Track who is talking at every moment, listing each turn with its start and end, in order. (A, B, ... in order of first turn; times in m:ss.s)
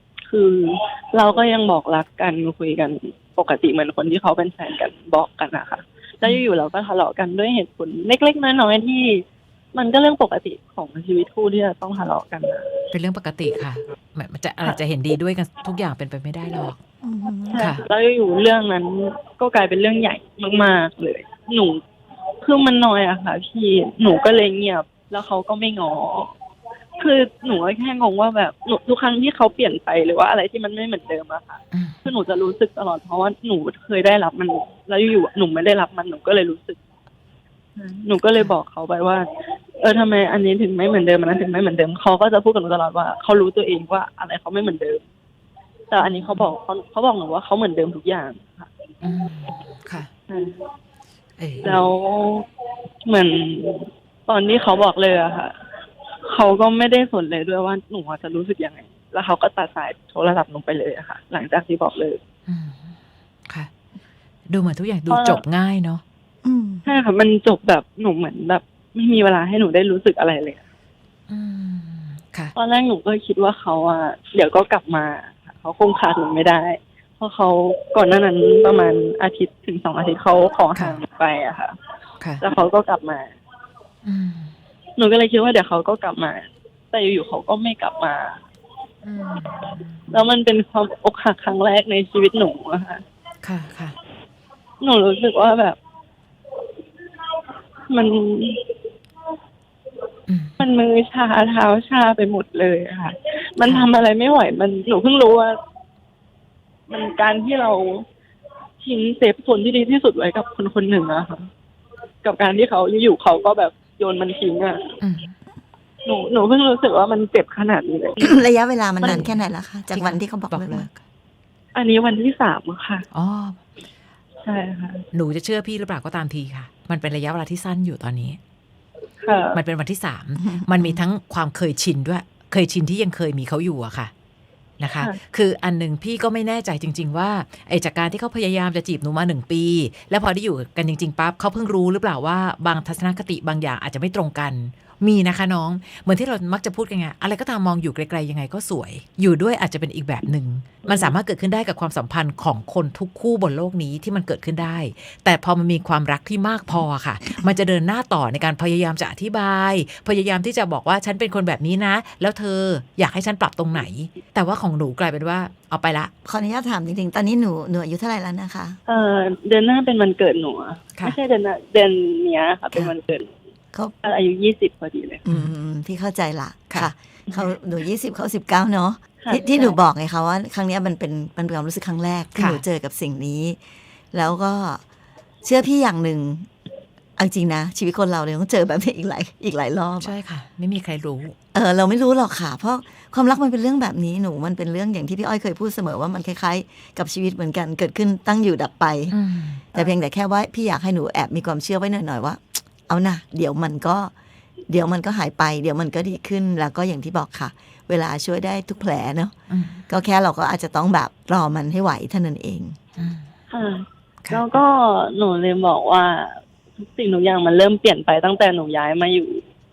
0:00.3-0:12.7 A
0:12.9-0:16.8 B
0:17.0-0:17.7 C
0:17.5-0:21.8 A
0:17.6-0:17.8 B
0:22.4-0:26.3 A
0:27.0-0:36.8 A
0:31.7-0:32.0 B
0:37.8-0:39.3 A
0:39.8-0:45.0 A
0:45.9-0:48.7 A
0:46.0-0:46.5 B
0:49.0-0:50.1 B
0:50.3-0:50.6 A
0:51.4-0:51.8 B
0:51.6-0:52.4 A
0:53.1-0:55.5 A
0:56.3-1:02.2 A
1:02.5-1:02.9 B
1:04.5-1:06.0 B
1:05.1-1:05.4 A
1:06.4-1:06.9 C
1:06.8-1:10.6 A
1:11.3-1:12.5 B
1:12.6-1:21.8 A
1:20.8-1:21.0 B
1:22.4-1:23.3 A
1:24.0-1:24.5 B
1:25.0-1:28.4 A
1:29.0-1:30.2 B
1:30.1-1:33.0 A
1:33.4-1:34.0 B
1:34.8-1:35.8 A
1:37.9-1:38.6 A
1:40.3-1:40.6 B
1:40.6-1:45.6 A
1:46.9-1:48.0 A
1:48.8-1:51.5 A
1:52.2-1:54.9 A
1:55.0-1:55.3 B
1:56.0-1:58.4 A
1:58.2-2:00.9 C
1:59.0-1:59.4 B
1:59.9-2:01.0 B
2:01.7-2:03.0 A
2:03.1-2:03.6 B
2:04.4-2:05.0 A
2:05.1-2:08.4 B
2:09.2-2:09.6 A
2:09.5-2:14.1 B
2:10.4-2:11.0 C
2:14.8-2:46.1 B
2:30.9-2:31.1 A
2:46.2-2:48.8 C
2:48.9-2:53.3 A
2:54.0-2:55.2 A
2:55.2-3:03.6 C
2:59.2-2:59.8 A
3:02.4-3:02.6 B
3:04.1-3:04.8 C
3:05.4-3:06.5 C
3:07.2-3:10.1 C
3:10.0-3:11.4 B
3:11.5-3:19.2 C
3:19.1-3:19.6 B
3:19.7-3:24.1 C
3:24.7-3:29.4 C
3:29.5-3:29.8 B
3:29.9-3:32.8 C
3:33.0-3:33.2 B
3:33.5-3:39.4 A